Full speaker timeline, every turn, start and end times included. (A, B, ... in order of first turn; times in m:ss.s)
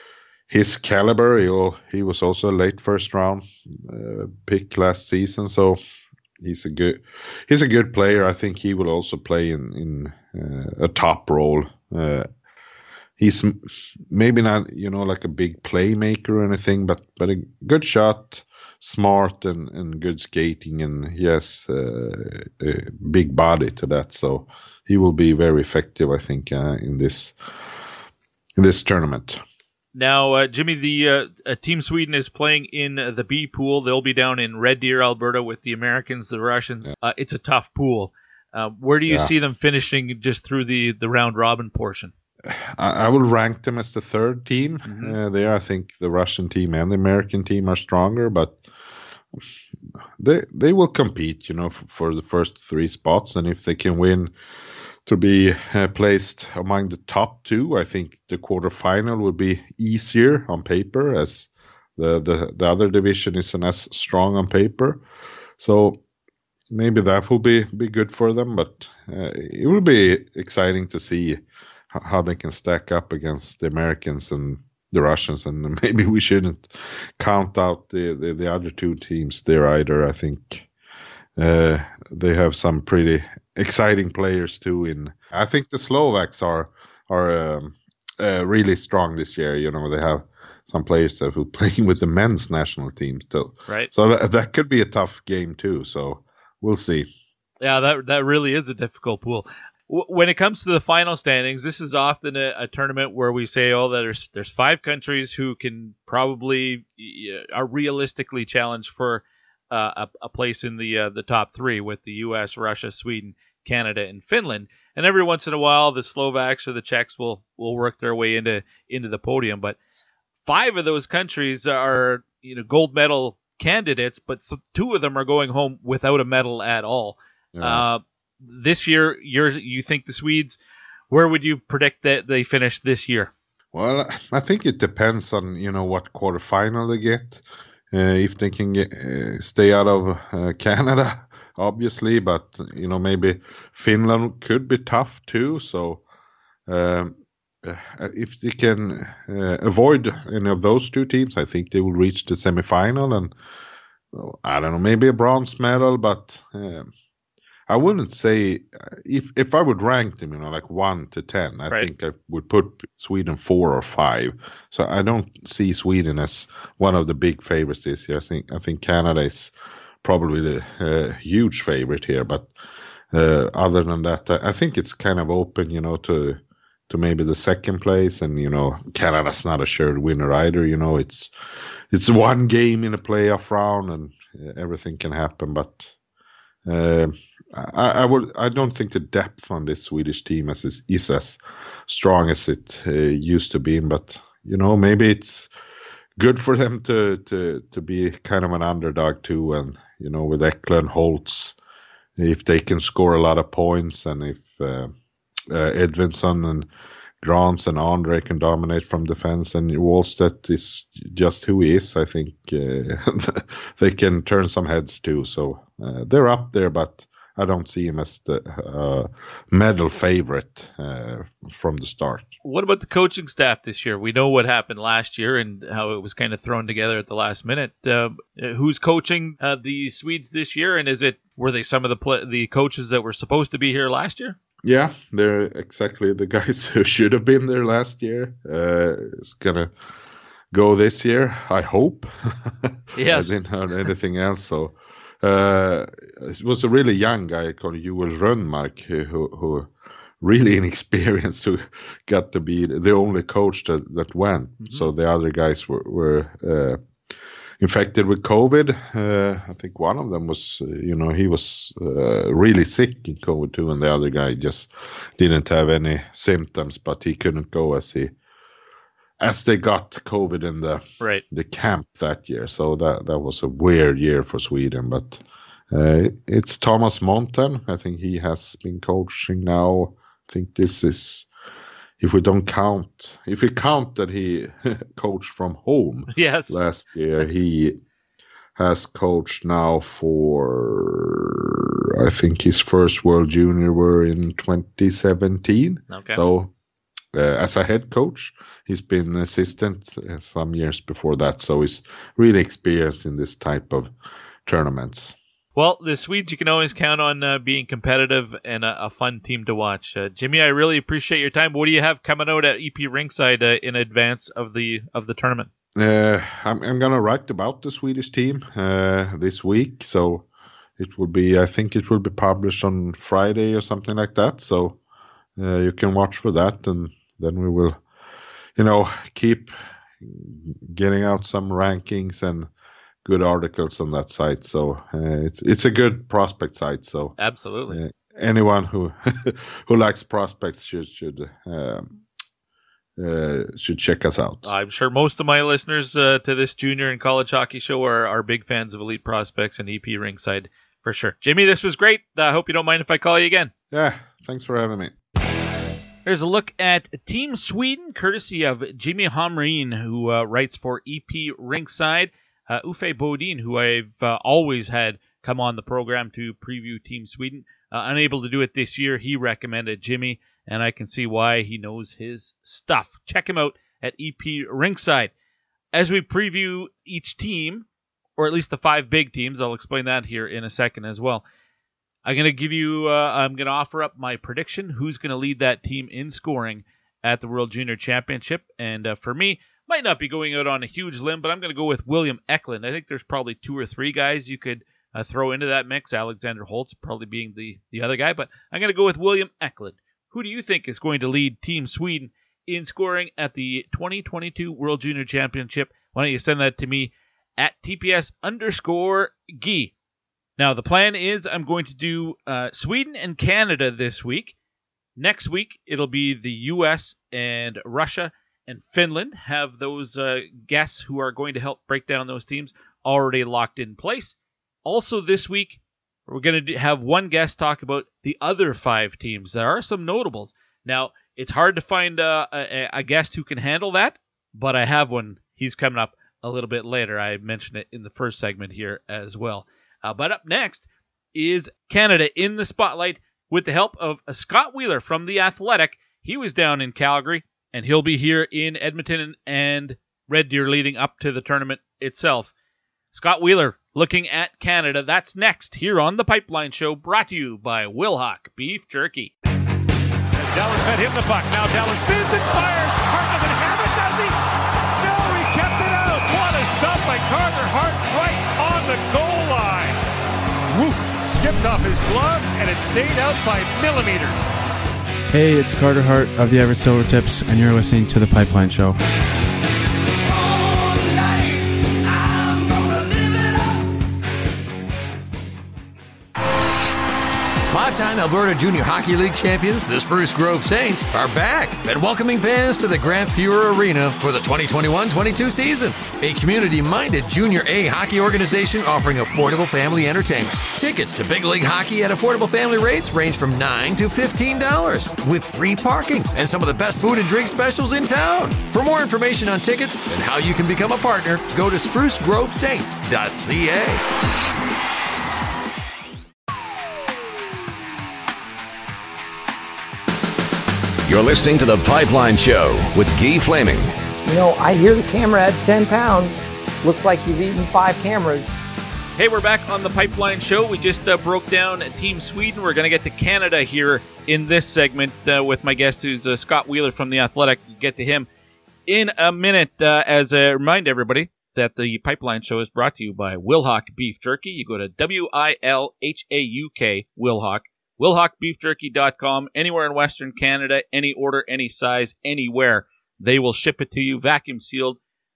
0:00.5-0:05.8 A
0:06.4-0:12.3 A
0:13.2-0:27.4 A
0:28.6-0:29.4 A
0:30.0-0:42.1 B
0:39.1-0:39.3 A
0:42.5-0:48.7 A
0:44.9-0:45.2 B
0:50.2-0:54.3 A
0:55.0-1:05.0 A
1:05.6-1:06.0 A
1:06.7-1:11.4 A
1:11.9-1:20.7 A
1:21.4-1:37.1 A
1:37.6-1:59.8 B
2:00.4-2:10.6 B
2:07.5-2:07.9 A
2:11.1-2:13.3 B
2:13.7-2:26.0 A
2:26.7-2:33.3 A
2:34.1-2:36.9 A
2:37.7-2:52.5 A
2:53.1-3:01.3 A
3:01.9-3:06.0 A
3:06.6-3:15.5 A
3:16.2-3:21.6 A
3:22.2-3:24.9 A
3:25.5-3:26.7 A
3:27.2-3:42.3 A
3:42.4-3:54.4 B
3:54.6-3:59.7 A
4:00.5-4:16.8 A
4:03.0-4:03.4 B
4:14.6-4:14.9 B
4:17.6-4:28.1 A
4:29.2-4:41.3 A
4:42.0-4:47.8 A
4:46.1-4:46.6 B
4:48.6-4:56.5 A
4:55.9-4:56.2 B
4:57.1-5:03.9 A
5:04.4-5:05.2 A
5:05.6-5:15.5 B
5:15.8-5:20.3 A
5:20.8-5:24.8 A
5:25.4-5:27.8 A
5:28.6-5:32.5 A
5:33.0-5:37.2 A
5:37.2-5:37.8 B
5:37.7-5:42.0 A
5:43.0-5:44.5 A
5:44.4-5:53.5 B
5:53.7-5:54.9 A
5:56.0-6:15.1 B
6:15.7-6:17.7 B
6:18.2-6:21.2 B
6:22.0-6:49.7 B
6:50.4-6:54.4 B
6:55.0-7:32.3 B
7:32.9-7:39.1 B
7:40.3-7:44.2 C
7:44.8-7:49.8 C
7:50.5-7:54.2 C
7:55.1-7:58.8 D
8:07.5-8:33.8 E
8:40.9-8:43.7 F
8:44.0-8:48.4 G
8:49.0-8:58.1 B
8:58.7-9:14.8 B